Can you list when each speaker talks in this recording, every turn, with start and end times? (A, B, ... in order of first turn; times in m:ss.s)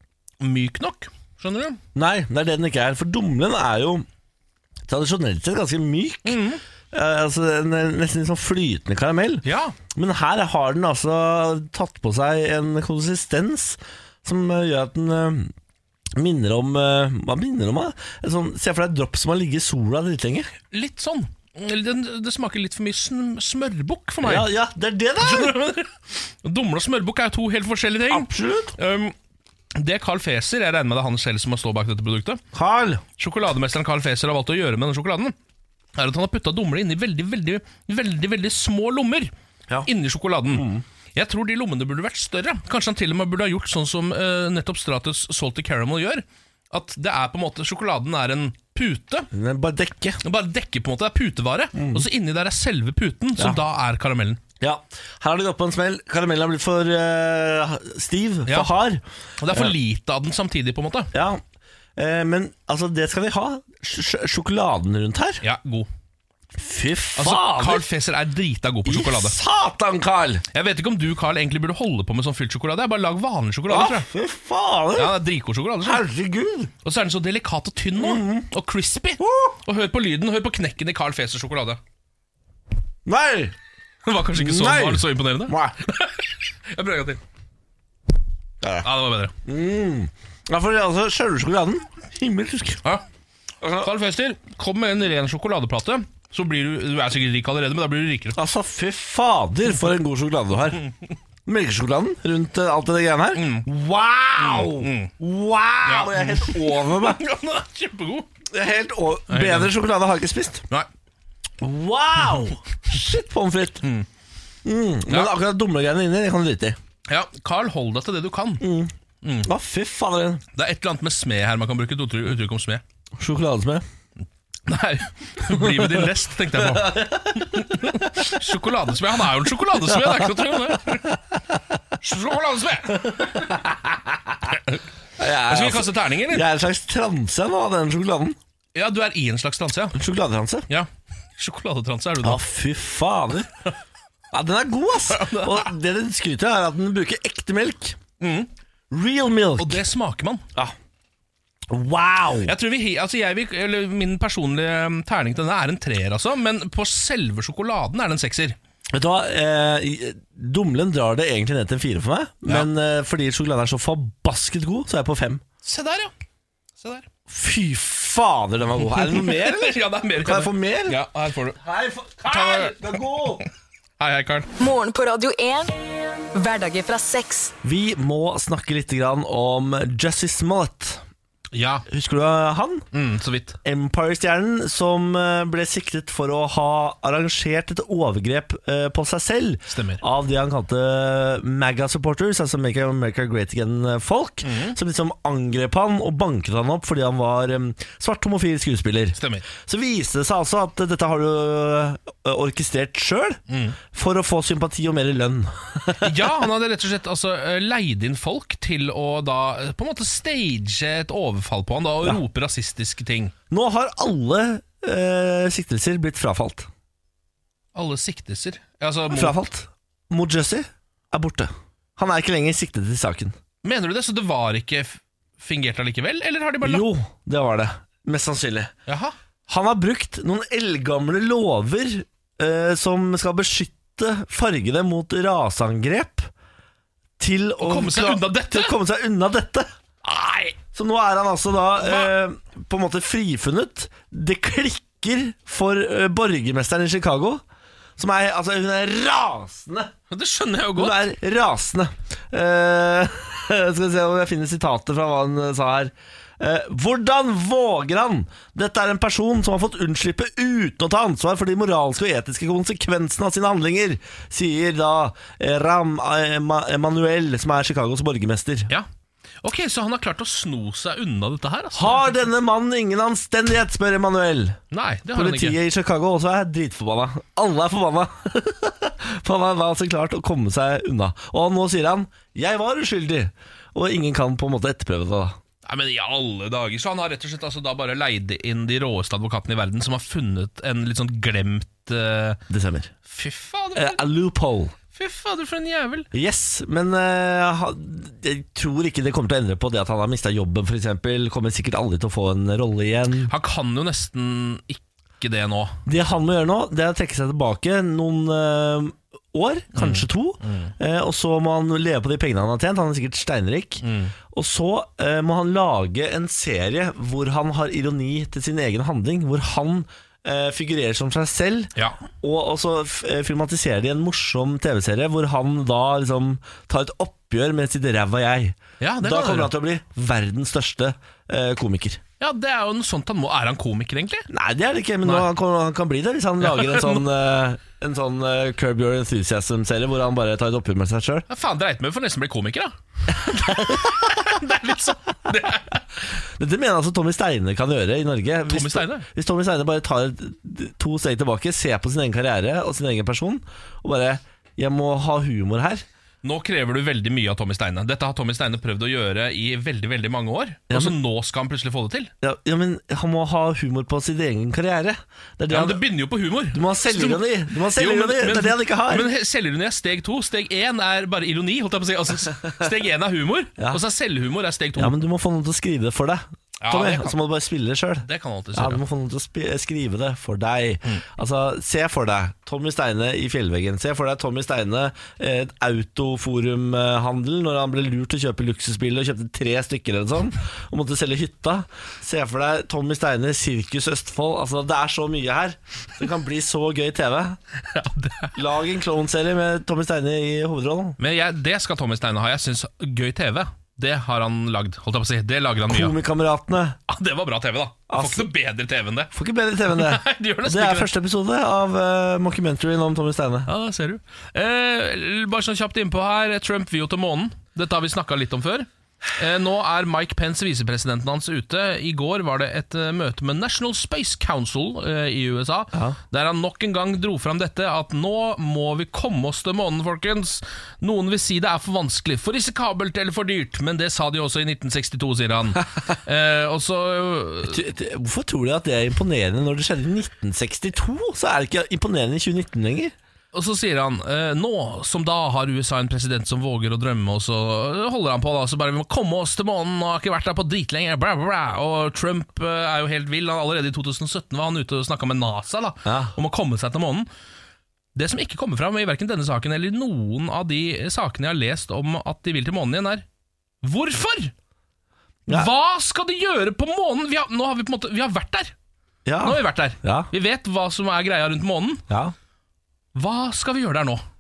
0:00.4-0:01.8 A
0:02.0-0:04.1 B
0:04.9-0:06.4 B
0:06.2-0:06.6 A
0:06.9-0:15.5 B
0:09.4-0:09.8 A
0:16.2-0:20.5 B
0:20.7-0:24.5 A
0:24.2-0:25.6 B
0:25.2-0:29.2 A
0:28.1-0:28.8 B
0:29.8-0:32.4 A
0:32.5-0:33.0 B
0:33.2-0:35.4 A
0:36.0-0:39.3 A
0:39.8-0:49.3 A
0:40.5-0:40.8 B
0:49.3-0:50.2 B
0:50.2-0:54.4 A
0:51.7-0:52.1 B
0:54.6-0:59.7 B
0:59.4-1:01.1 A
1:01.1-1:01.4 B
1:02.0-1:05.4 B
1:05.4-1:05.9 A
1:06.6-1:07.8 B
1:07.2-1:09.4 A
1:08.9-1:10.4 B
1:10.5-1:14.1 A
1:13.7-1:15.2 B
1:15.0-1:16.0 A
1:15.8-1:16.7 B
1:16.8-1:21.8 A
1:18.0-1:18.5 B
1:19.2-1:19.6 B
1:23.1-1:23.6 B
1:24.0-1:27.2 A
1:24.3-1:25.8 B
1:28.6-1:28.9 B
1:28.8-1:29.3 A
1:29.4-1:32.8 B
1:33.6-1:33.9 B
1:33.8-1:38.4 A
1:38.4-1:40.9 B
1:41.5-1:47.2 B
1:43.3-1:43.7 A
1:44.4-1:45.1 A
1:45.8-1:48.3 A
1:48.5-1:50.6 B
1:49.3-1:49.7 A
1:51.6-1:53.8 B
1:54.6-1:56.8 B
1:55.1-1:55.3 A
1:57.1-1:58.6 A
1:58.6-1:58.9 B
1:59.2-1:59.5 A
1:59.4-2:00.4 B
2:00.5-2:02.8 A
2:03.2-2:03.8 B
2:04.7-2:11.2 A
2:05.5-2:06.1 B
2:06.6-2:08.3 B
2:12.0-2:13.6 A
2:13.0-2:14.4 B
2:14.5-2:14.8 A
2:15.2-2:18.4 B
2:15.4-2:16.5 A
2:18.7-2:20.0 A
2:20.0-2:20.7 B
2:20.7-2:22.4 A
2:22.2-2:23.5 B
2:24.3-2:28.0 B
2:25.1-2:25.7 A
2:28.2-2:28.5 A
2:28.9-2:29.8 B
2:29.6-2:30.4 A
2:31.7-2:32.5 B
2:32.4-2:38.6 A
2:38.9-2:45.4 B
2:45.6-2:46.1 A
2:46.8-2:47.1 A
2:47.3-2:51.0 B
2:48.8-2:51.6 A
2:51.6-2:53.5 B
2:52.2-2:53.5 A
2:54.0-2:54.5 A
2:54.6-2:55.8 C
2:56.3-2:57.5 C
2:57.6-3:01.0 B
3:01.5-3:01.9 A
3:01.9-3:02.9 B
3:02.9-3:03.6 A
3:03.6-3:23.4 B
3:09.7-3:10.0 A
3:14.4-3:14.8 A
3:19.2-3:19.4 A
3:23.5-3:23.8 A
3:23.9-3:26.3 B
3:26.0-3:33.3 A
3:33.5-3:36.7 B
3:37.7-3:39.4 A
3:39.1-3:43.4 B
3:43.6-3:46.9 A
3:46.6-3:48.7 B
3:48.9-3:49.2 A
3:49.5-3:56.3 B
3:57.2-3:59.7 B
3:57.6-3:58.8 A
4:00.0-4:00.6 A
4:00.7-4:07.4 B
4:01.8-4:02.1 A
4:08.0-4:09.9 B
4:10.1-4:11.0 A
4:10.8-4:28.7 B
4:29.4-4:32.1 A
4:31.8-4:34.6 B
4:34.7-4:35.6 A
4:35.1-4:45.4 B
4:45.6-4:52.4 A
4:52.5-4:52.9 B
4:53.1-4:54.0 A
4:53.8-4:54.8 B
4:54.9-4:56.1 A
4:56.1-5:03.3 B
5:03.3-5:05.8 A
5:05.9-5:32.0 B
5:09.7-5:10.7 A
5:13.8-5:14.1 A
5:21.8-5:22.0 A
5:28.8-5:29.5 A
5:32.2-5:34.3 A
5:34.3-5:41.3 B
5:35.0-5:35.3 A
5:36.4-5:37.1 A
5:41.3-5:45.8 A
5:43.1-5:44.2 B
5:46.4-5:55.8 B
5:48.5-5:49.1 A
5:56.2-6:02.1 A
6:00.7-6:01.0 B
6:02.2-6:05.8 B
6:05.5-6:15.0 A
6:06.5-6:09.1 B
6:14.8-6:37.4 B
6:16.6-6:17.2 A
6:18.0-6:18.8 A
6:37.6-6:38.4 A
6:38.4-6:41.0 B
6:41.0-6:46.0 A
6:45.7-6:46.8 B
6:46.9-6:49.1 A
6:47.9-6:48.3 B
6:49.1-6:53.5 B
6:49.7-6:50.9 A
6:53.5-7:17.6 A
7:17.4-7:22.9 B
7:23.3-7:37.1 A
7:35.8-7:36.2 B
7:38.0-7:43.0 A
7:43.6-7:44.3 A
7:45.3-7:48.5 A
7:49.1-7:50.1 B
7:49.2-7:51.8 A
7:51.9-7:52.1 B
7:53.0-7:54.0 A